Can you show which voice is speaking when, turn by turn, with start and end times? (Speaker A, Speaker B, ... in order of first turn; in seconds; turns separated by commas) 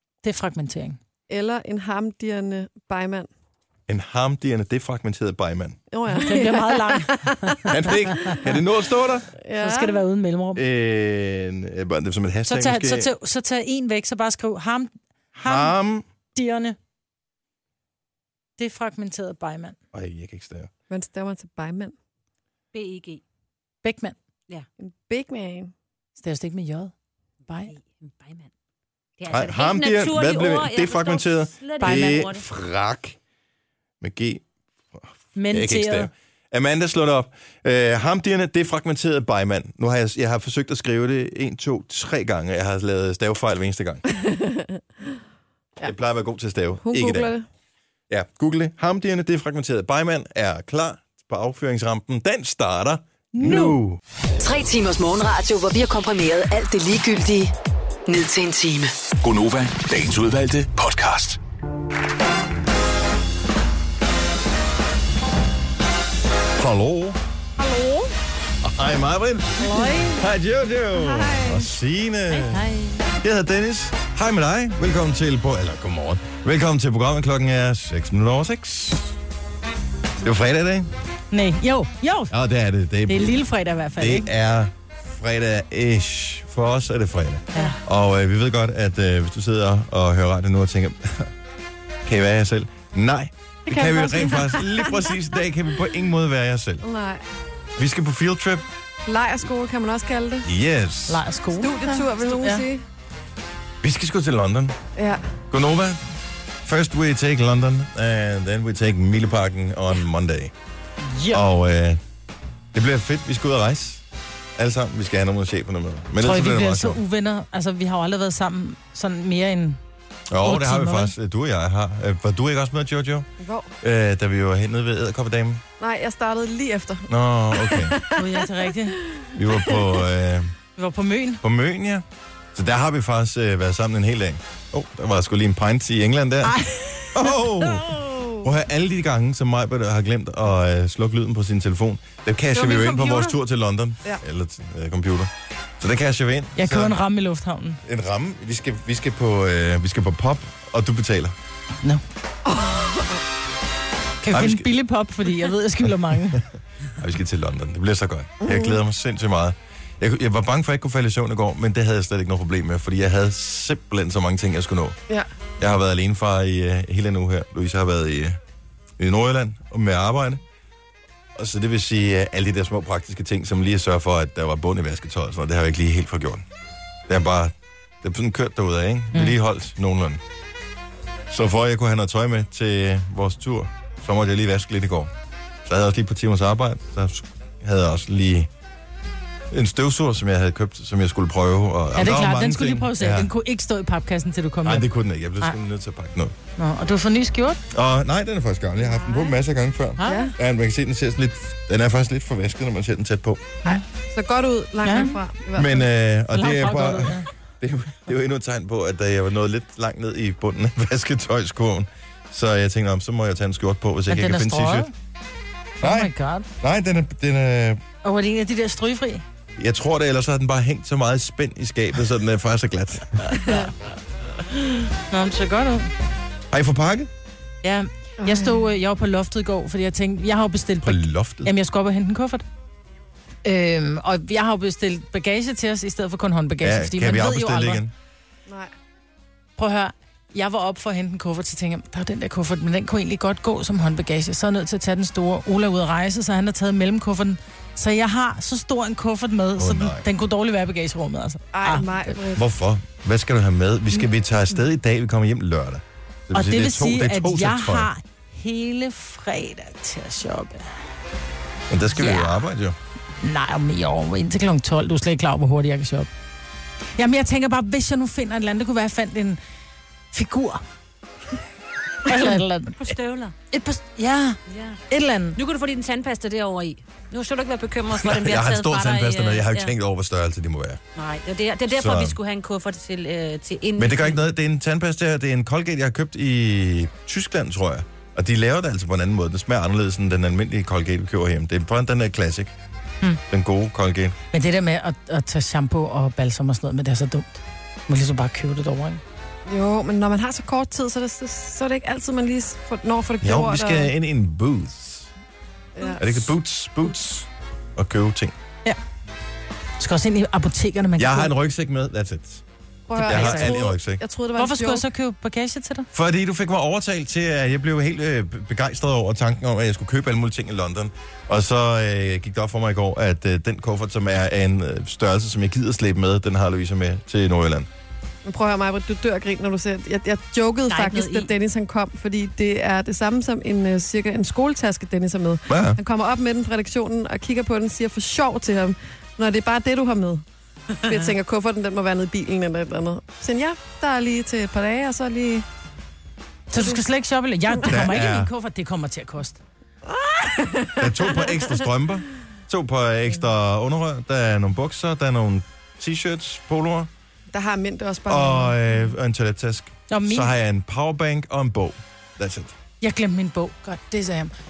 Speaker A: 0.2-1.0, Speaker B: 1.3-3.3, Speaker C: 3.9-5.8, Speaker B: 5.9-8.5, Speaker A: 6.1-8.2, Speaker C: 7.7-9.3, Speaker B: 9.4-10.0, Speaker A: 9.6-10.6, Speaker C: 10.6-13.1, Speaker A: 12.5-15.7, Speaker C: 15.3-16.1, Speaker A: 16.4-16.8, Speaker A: 18.6-19.8, Speaker C: 19.9-20.7, Speaker B: 20.9-21.9, Speaker D: 22.7-23.2, Speaker A: 23.8-24.2, Speaker B: 24.8-25.7, Speaker A: 26.2-26.9, Speaker A: 27.5-27.7, Speaker D: 27.7-28.5, Speaker D: 29.2-32.5, Speaker C: 29.3-33.2, Speaker A: 31.8-32.1, Speaker C: 34.0-34.4, Speaker C: 35.0-44.0, Speaker A: 35.4-36.1, Speaker B: 44.1-44.8, Speaker C: 45.8-47.3, Speaker B: 46.8-47.5, Speaker C: 48.1-54.0, Speaker A: 53.3-53.8, Speaker E: 54.4-57.5, Speaker E: 58.1-58.9, Speaker F: 59.2-61.4, Speaker C: 66.6-67.2, Speaker B: 67.6-68.0, Speaker C: 68.6-72.7, Speaker A: 69.6-70.2, Speaker B: 71.1-71.7, Speaker D: 72.3-73.1, Speaker C: 73.2-79.2, Speaker C: 80.2-80.9, Speaker A: 81.3-82.3, Speaker C: 82.3-83.5, Speaker A: 83.1-84.3, Speaker C: 84.0-91.3, Speaker C: 92.0-96.8, Speaker A: 93.7-94.5, Speaker B: 96.8-97.2, Speaker C: 97.8-98.7, Speaker B: 99.1-100.5, Speaker C: 100.5-101.2, Speaker A: 101.1-102.7, Speaker B: 101.6-102.8, Speaker C: 103.8-104.8, Speaker B: 105.0-105.2, Speaker C: 105.5-106.1, Speaker C: 106.7-110.5, Speaker A: 111.1-111.5, Speaker C: 111.3-112.0, Speaker C: 112.7-114.0, Speaker C: 114.6-117.0, Speaker A: 116.2-119.8, Speaker C: 120.3-123.3, Speaker A: 120.4-121.1, Speaker B: 123.4-123.7, Speaker C: 123.8-125.6, Speaker B: 125.8-128.5, Speaker C: 127.1-128.0, Speaker A: 128.2-129.0, Speaker B: 129.1-129.9, Speaker C: 129.4-130.6, Speaker A: 130.8-131.4, Speaker C: 131.4-132.0, Speaker C: 132.6-136.6, Speaker A: 136.4-137.9, Speaker C: 137.1-147.0, Speaker B: 138.0-138.4, Speaker A: 142.6-143.3, Speaker A: 146.6-147.8, Speaker C: 147.8-151.4, Speaker B: 152.5-153.2, Speaker A: 154.2-156.4, Speaker C: 154.3-154.7, Speaker C: 155.9-165.0, Speaker B: 158.4-158.8, Speaker C: 165.6-168.4, Speaker C: 169.0-170.4, Speaker C: 171.4-176.4, Speaker C: 177.1-180.2, Speaker C: 181.3-185.1, Speaker C: 185.7-188.5, Speaker C: 189.5-193.3, Speaker A: 191.9-194.9, Speaker C: 194.7-196.3, Speaker A: 196.6-197.6, Speaker C: 197.7-203.6, Speaker A: 200.0-200.3, Speaker B: 200.0-200.3, Speaker B: 203.7-205.9, Speaker A: 204.8-205.1, Speaker C: 205.6-214.9, Speaker A: 206.3-207.3, Speaker A: 214.1-214.9, Speaker A: 215.8-216.5, Speaker C: 215.8-217.8, Speaker A: 218.0-219.2, Speaker C: 219.6-223.4, Speaker B: 223.4-223.6, Speaker A: 225.1-225.9, Speaker C: 226.5-227.1, Speaker A: 227.6-232.4, Speaker B: 228.2-228.6, Speaker C: 230.8-231.5, Speaker A: 233.4-237.8, Speaker C: 236.6-237.9, Speaker B: 238.5-238.7, Speaker A: 239.6-252.1, Speaker C: 249.6-250.1, Speaker B: 251.5-252.4, Speaker C: 252.3-257.9, Speaker A: 256.3-260.7, Speaker C: 261.7-262.8, Speaker A: 262.0-262.4, Speaker A: 263.2-266.1, Speaker A: 267.0-269.4, Speaker A: 270.1-270.6, Speaker A: 272.1-272.9, Speaker D: 272.8-273.4, Speaker A: 273.5-274.4, Speaker D: 274.5-274.8, Speaker A: 274.9-275.4, Speaker D: 275.4-279.7, Speaker C: 277.9-280.8, Speaker D: 281.0-284.2, Speaker C: 281.7-282.2, Speaker C: 283.8-292.5, Speaker C: 293.3-294.2, Speaker A: 294.3-299.0, Speaker B: 299.5-303.9, Speaker C: 303.2-305.1, Speaker B: 305.8-306.2, Speaker C: 306.0-308.4, Speaker A: 309.8-311.3, Speaker C: 311.0-312.4, Speaker B: 312.9-314.9, Speaker A: 312.9-313.6, Speaker C: 313.0-314.0, Speaker A: 314.4-315.9, Speaker C: 315.9-327.7, Speaker B: 328.2-340.2, Speaker D: 330.7-331.3, Speaker C: 335.5-335.8, Speaker B: 340.8-345.5, Speaker D: 340.9-341.1, Speaker A: 346.5-349.4, Speaker B: 346.6-346.8, Speaker C: 347.6-348.3, Speaker B: 349.9-351.5, Speaker C: 350.8-356.9, Speaker B: 357.3-358.6, Speaker C: 358.1-362.6, Speaker A: 359.9-360.3, Speaker A: 362.8-364.3